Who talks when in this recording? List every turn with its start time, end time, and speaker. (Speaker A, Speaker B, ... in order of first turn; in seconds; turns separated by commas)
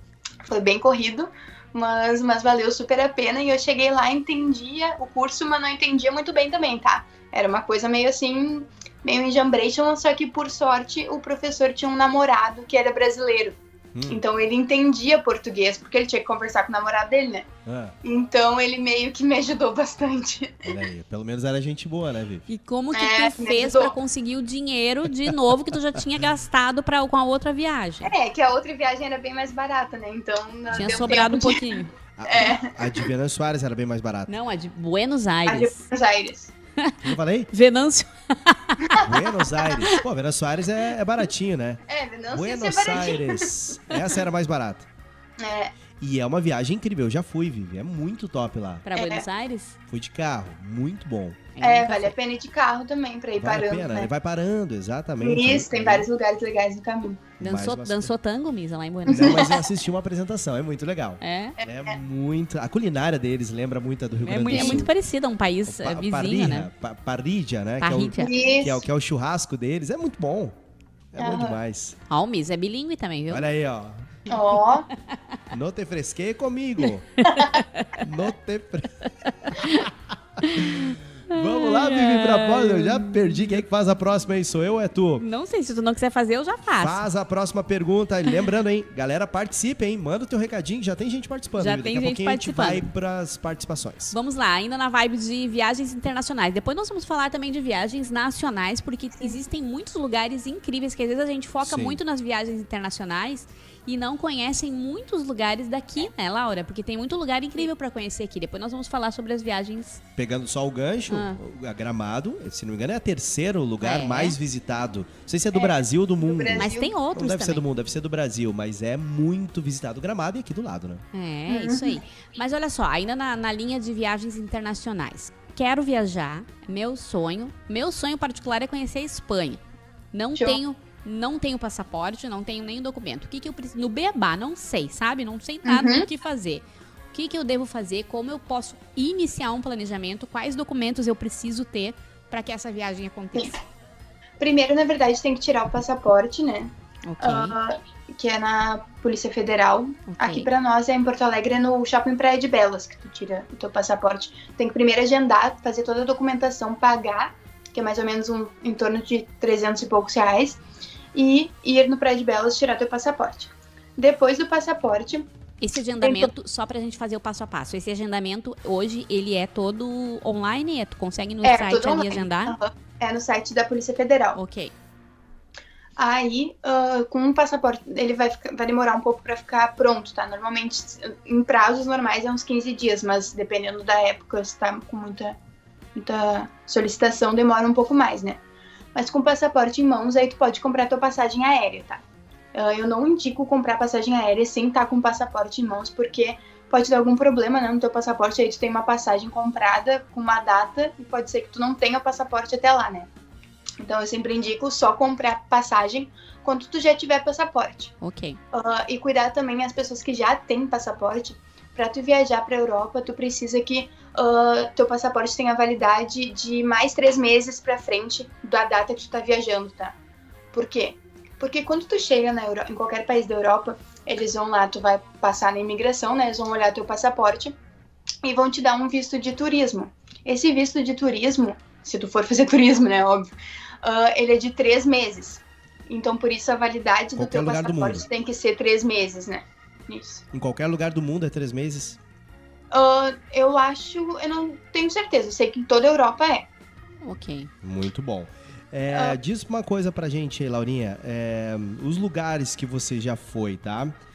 Speaker A: 0.5-17.5, Speaker B: 13.9-14.2, Speaker B: 17.7-17.9, Speaker A: 18.0-20.7, Speaker B: 20.6-22.5, Speaker C: 22.5-28.1, Speaker A: 22.9-24.0, Speaker A: 28.0-31.7, Speaker B: 30.7-31.2, Speaker C: 30.7-31.9, Speaker B: 32.2-34.3, Speaker A: 32.3-33.0, Speaker C: 34.3-35.8, Speaker A: 35.5-36.5, Speaker B: 37.0-37.5, Speaker C: 37.5-39.1, Speaker B: 39.0-44.9, Speaker C: 39.6-39.9, Speaker A: 41.9-43.5, Speaker A: 45.4-45.8, Speaker B: 46.0-48.9, Speaker C: 48.9-49.8, Speaker A: 49.0-49.3, Speaker B: 49.9-51.5, Speaker C: 51.5-52.1, Speaker A: 51.6-54.1, Speaker B: 53.4-56.1, Speaker A: 55.2-57.2, Speaker B: 57.4-58.1, Speaker C: 57.4-59.6, Speaker A: 59.1-59.6, Speaker B: 59.1-64.9, Speaker C: 61.2-61.6, Speaker A: 61.6-62.0, Speaker C: 64.2-66.7, Speaker A: 64.5-64.9, Speaker B: 65.7-70.6, Speaker C: 67.8-68.3, Speaker A: 68.2-68.8, Speaker B: 71.1-72.0, Speaker A: 71.2-71.6, Speaker C: 72.1-73.4, Speaker B: 73.3-74.2, Speaker A: 74.3-74.9, Speaker B: 75.5-77.1, Speaker C: 77.2-78.0, Speaker A: 77.3-77.6, Speaker B: 78.0-85.2, Speaker C: 79.3-79.9, Speaker C: 80.4-83.6, Speaker C: 85.2-87.0, Speaker B: 86.8-94.2, Speaker C: 91.6-92.9, Speaker C: 94.1-110.0, Speaker B: 101.6-102.0, Speaker B: 110.2-121.0, Speaker C: 111.1-111.4, Speaker C: 113.8-114.4, Speaker A: 115.5-117.0, Speaker C: 116.6-117.6, Speaker C: 121.1-129.6, Speaker A: 121.5-122.0, Speaker C: 130.1-143.6, Speaker A: 135.7-136.1, Speaker A: 144.4-160.6, Speaker C: 147.1-147.6, Speaker C: 150.1-150.5, Speaker A: 161.1-165.3, Speaker C: 165.6-172.6, Speaker A: 166.0-166.3, Speaker A: 171.4-174.4, Speaker C: 174.4-174.7, Speaker A: 176.0-185.4, Speaker A: 185.9-188.4, Speaker A: 188.9-192.0, Speaker A: 192.5-203.1, Speaker A: 203.8-207.9, Speaker C: 208.0-208.4, Speaker A: 208.5-219.9, Speaker A: 220.5-227.6, Speaker A: 228.2-240.2, Speaker B: 237.2-238.1, Speaker B: 240.3-242.0, Speaker A: 242.7-246.5, Speaker C: 247.0-247.5, Speaker B: 247.6-254.0, Speaker A: 248.9-249.2